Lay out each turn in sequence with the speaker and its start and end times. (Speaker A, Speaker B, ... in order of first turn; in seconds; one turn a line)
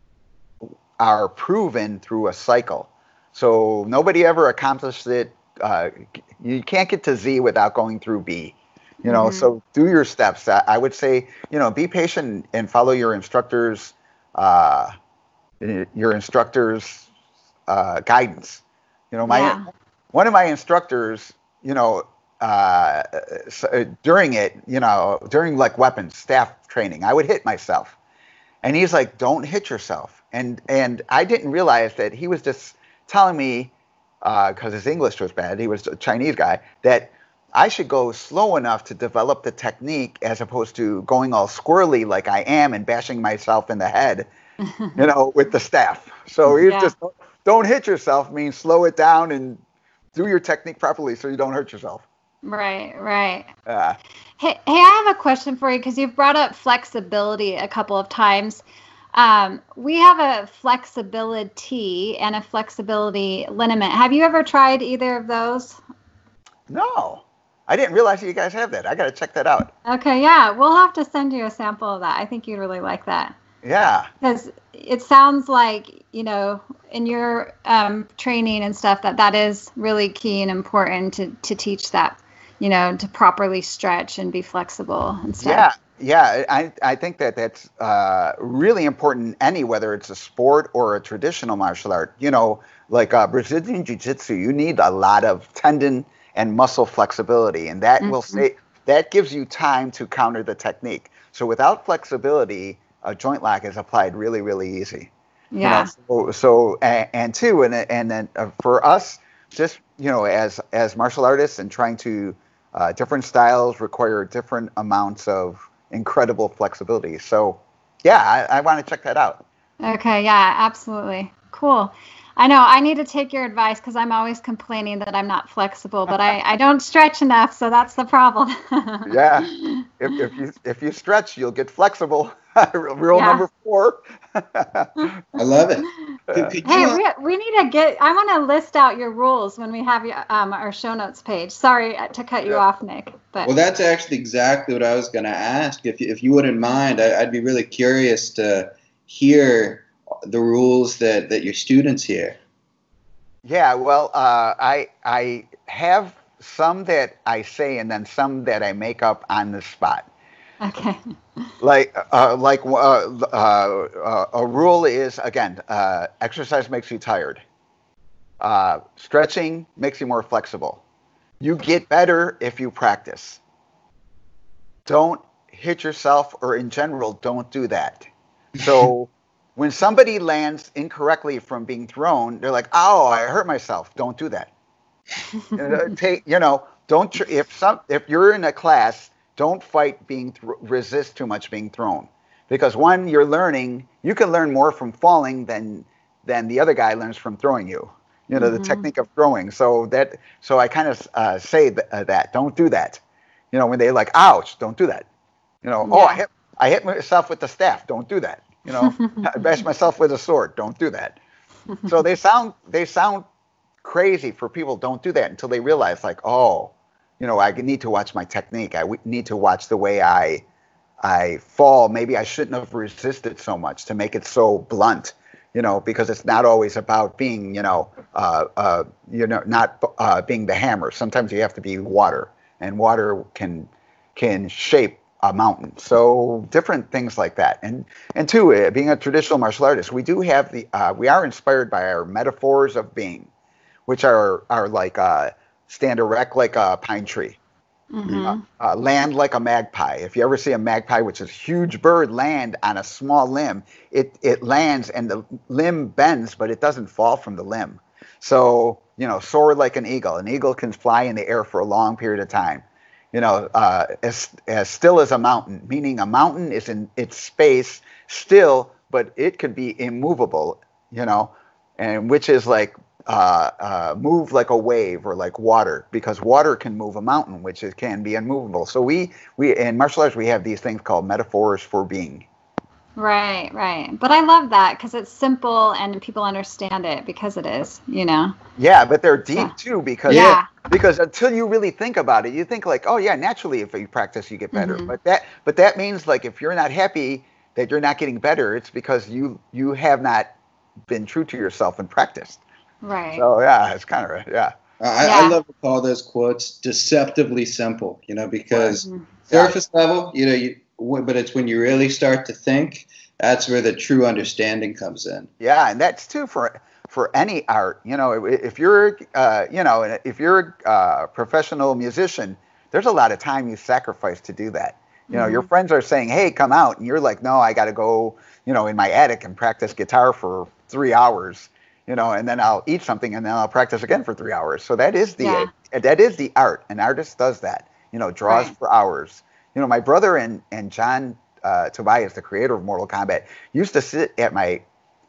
Speaker A: 1.0-14.9
Speaker B: 9.1-9.5
Speaker A: 15.6-17.1
Speaker A: 17.7-27.9
Speaker B: 19.2-19.7
Speaker A: 28.6-44.3
Speaker B: 44.6-45.0
Speaker A: 45.0-49.6
Speaker B: 46.5-46.9
Speaker A: 50.1-52.0
Speaker B: 52.4-53.5
Speaker A: 53.6-54.0
Speaker B: 54.4-58.6
Speaker B: 59.1-65.8
Speaker A: 66.7-69.7
Speaker B: 69.8-73.3
Speaker A: 73.6-74.1
Speaker B: 74.2-85.7
Speaker A: 85.4-119.4
Speaker B: 98.0-98.4
Speaker B: 105.5-105.9
Speaker B: 119.8-129.9
Speaker A: 129.1-135.2
Speaker B: 133.1-133.4
Speaker C: 135.3-137.0
Speaker A: 136.3-136.9
Speaker B: 136.6-143.5
Speaker C: 143.4-152.4
Speaker A: 153.4-160.1
Speaker B: 160.6-161.5
Speaker A: 161.6-167.4
Speaker A: 168.4-170.8
Speaker A: 171.4-173.4
Speaker A: 174.8-178.1
Speaker A: 178.6-184.5
Speaker A: 185.5-203.0
Speaker B: 198.3-198.8
Speaker A: 203.5-205.1
Speaker A: 205.6-211.2
Speaker B: 205.8-206.2
Speaker B: 208.7-209.4
Speaker A: 211.8-213.2
Speaker A: 213.8-220.4
Speaker A: 221.0-243.3
Speaker A: 243.9-247.4
Speaker B: 247.9-248.4
Speaker A: 248.1-282.2
Speaker B: 282.9-288.4
Speaker A: 288.6-300.3
Speaker C: 290.1-290.4
Speaker B: 290.1-290.5
Speaker B: 294.5-294.9
Speaker A: 300.8-302.4
Speaker B: 302.8-303.2
Speaker A: 303.1-304.5
Speaker C: 304.8-315.3
Speaker B: 305.0-305.4
Speaker B: 308.6-309.1
Speaker A: 309.3-309.5
Speaker A: 315.4-344.6
Speaker B: 325.1-325.5
Speaker B: 335.2-335.5
Speaker B: 338.3-338.5